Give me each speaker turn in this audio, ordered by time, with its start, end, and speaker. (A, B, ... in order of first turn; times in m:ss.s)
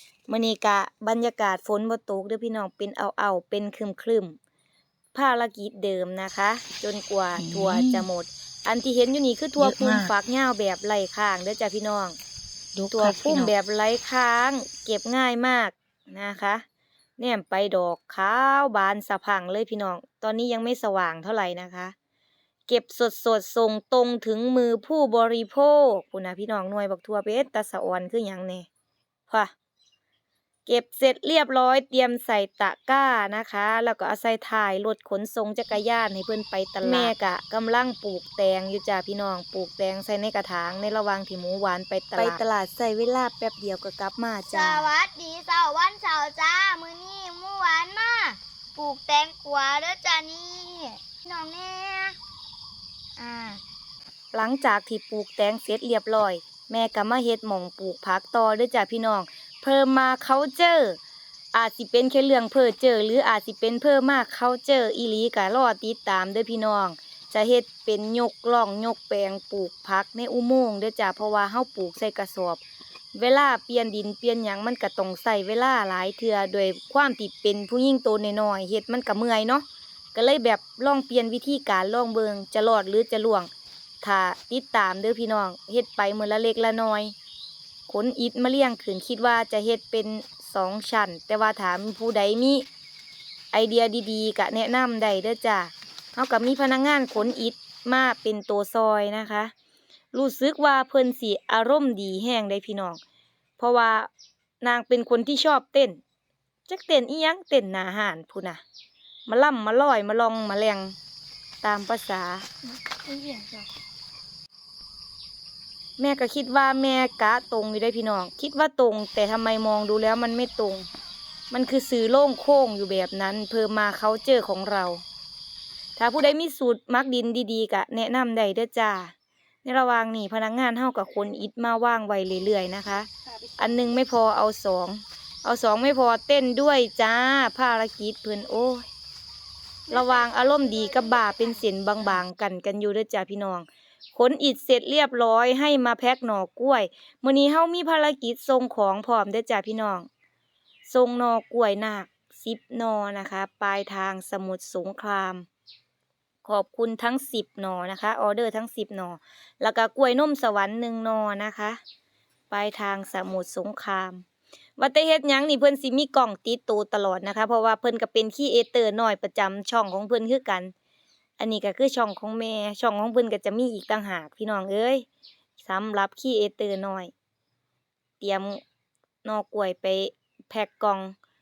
0:00.3-0:04.4 A
0:05.1-0:12.2 A
0:07.4-0:08.0 B
0:09.6-0:10.1 B
0:12.8-0:13.5 B
0:12.9-0:16.6 A
0:17.2-0:21.9 A
0:22.7-0:28.7 A
0:30.7-0:44.9 A
0:36.8-0:37.1 B
0:44.4-0:52.2 C
0:53.2-0:53.6 C
0:54.3-1:01.0 A
1:01.5-1:12.6 A
1:13.1-1:23.5 A
1:24.0-1:27.1 A
1:27.9-1:32.6 A
1:33.5-1:39.5 A
1:40.1-1:43.0 A
1:43.6-1:44.1 A
1:44.6-1:46.0 A
1:46.7-1:48.6 A
1:49.3-1:51.0 A
1:51.6-1:52.5 A
1:53.0-1:53.7 C
1:56.0-2:00.9 A
2:01.5-2:05.0 A
2:06.0-2:09.1 A
2:09.6-2:18.9 A
2:19.9-2:21.6 C
2:19.9-2:30.1 A
2:30.9-2:35.5 A
2:36.4-2:41.8 A
2:42.5-2:44.2 A
2:44.8-2:50.7 A
2:51.4-2:55.1 A
2:55.6-2:57.1 A
2:58.2-2:58.6 A
2:59.2-3:01.2 A